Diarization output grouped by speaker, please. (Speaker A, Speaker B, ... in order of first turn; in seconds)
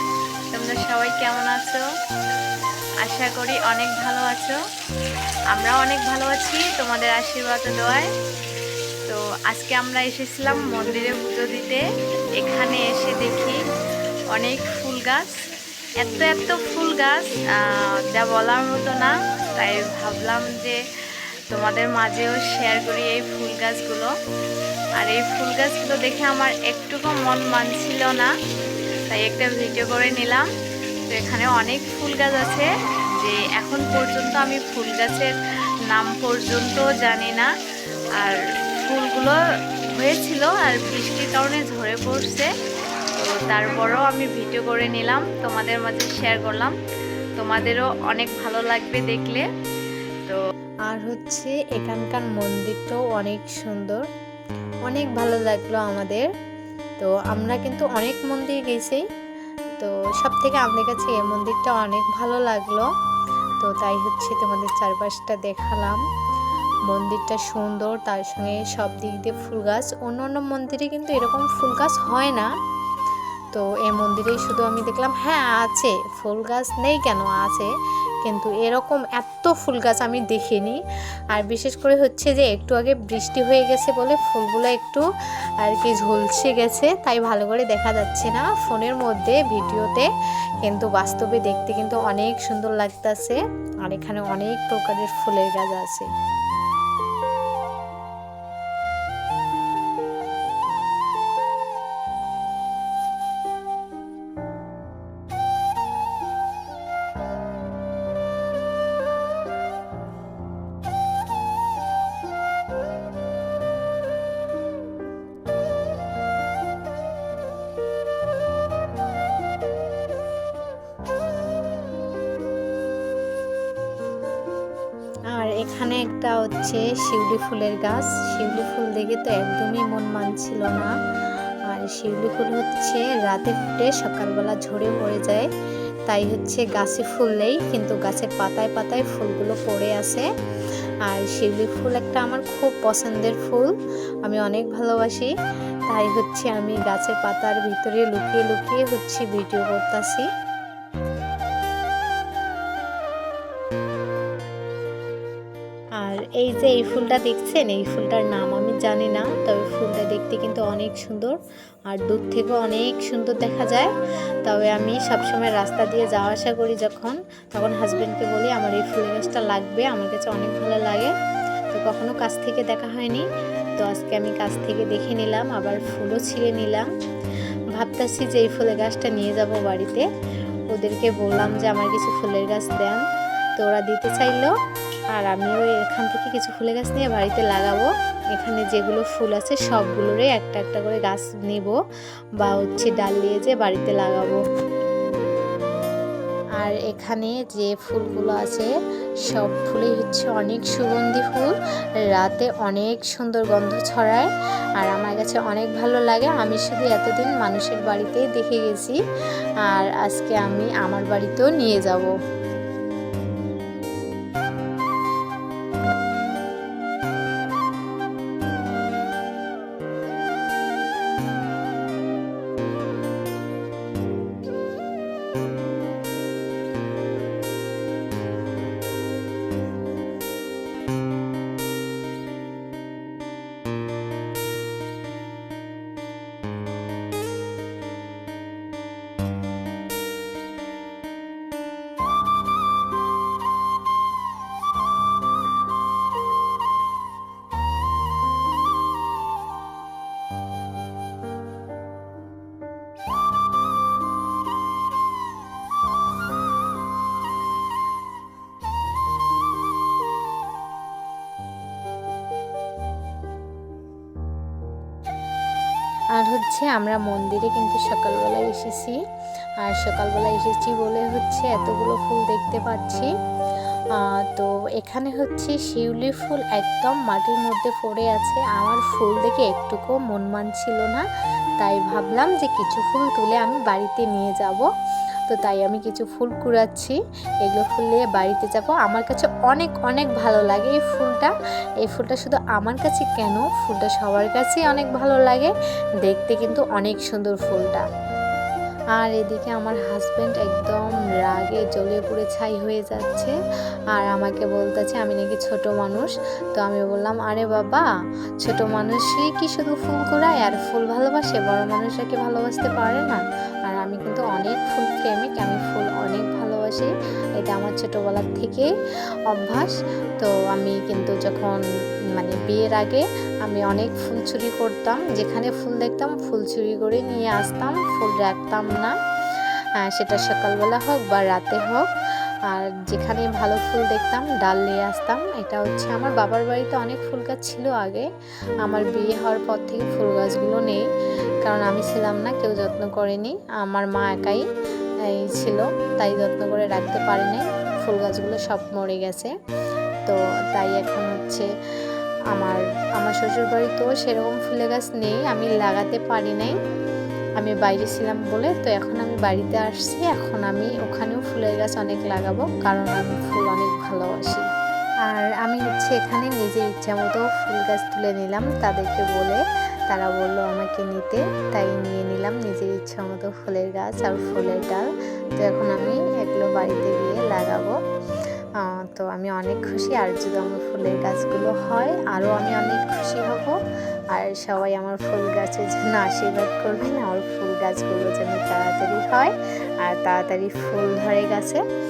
Speaker A: 0.5-1.8, 3.0-4.6, 5.5-8.1, 9.1-11.8, 12.4-13.6, 14.3-15.4, 16.0-20.8, 21.5-24.1, 25.0-28.3, 29.1-30.4, 31.1-35.3, 35.9-37.5, 38.2-39.4, 39.9-42.5, 43.2-46.7, 47.4-49.5, 51.0-51.4, 51.9-54.0, 55.0-56.2, 57.1-59.0, 59.8-62.8, 64.0-65.9, 67.0-72.4, 74.5-75.1, 83.8-84.2, 86.3-86.9, 87.7-88.0, 88.6-90.0, 92.5-92.9, 94.8-95.1, 126.1-126.7, 128.5-128.9, 132.4-132.8, 134.1-135.3, 136.3-137.6, 138.2-140.2, 141.5-143.5, 144.6-145.2, 146.0-146.6, 147.3-148.6, 299.1-299.4, 300.3-300.7, 309.7-310.7, 382.8-383.1
Speaker B: 51.0-54.0, 61.5-62.8, 63.6-66.0, 66.9-72.5, 73.5-77.7, 78.2-80.8, 81.3-85.0, 85.6-90.0, 90.6-93.3, 93.9-96.0, 125.4-130.9, 131.7-135.4, 136.1-140.2, 141.1-143.7, 144.3-145.3, 145.9-150.2, 156.0-161.3, 161.9-163.9, 164.4-171.1, 171.7-173.2, 173.8-176.9, 177.7-180.1, 180.7-183.0, 183.6-184.5, 185.2-191.7, 192.4-194.4, 196.6-198.7, 199.3-201.5, 202.1-204.3, 204.8-209.0, 209.7-212.1, 266.2-269.0, 269.6-273.1, 274.0-281.0, 281.6-284.6, 285.3-286.9, 287.4-291.3, 291.9-295.5, 296.1-297.8, 299.0-303.3, 304.0-307.8, 308.4-318.7, 319.4-321.6, 322.2-328.9, 329.9-331.8, 332.5-338.1, 338.6-340.8, 341.4-344.4, 345.2-349.3, 350.1-351.4, 352.3-356.5, 357.4-364.5, 365.1-374.9, 375.4-377.7, 378.7-383.5, 384.1-391.6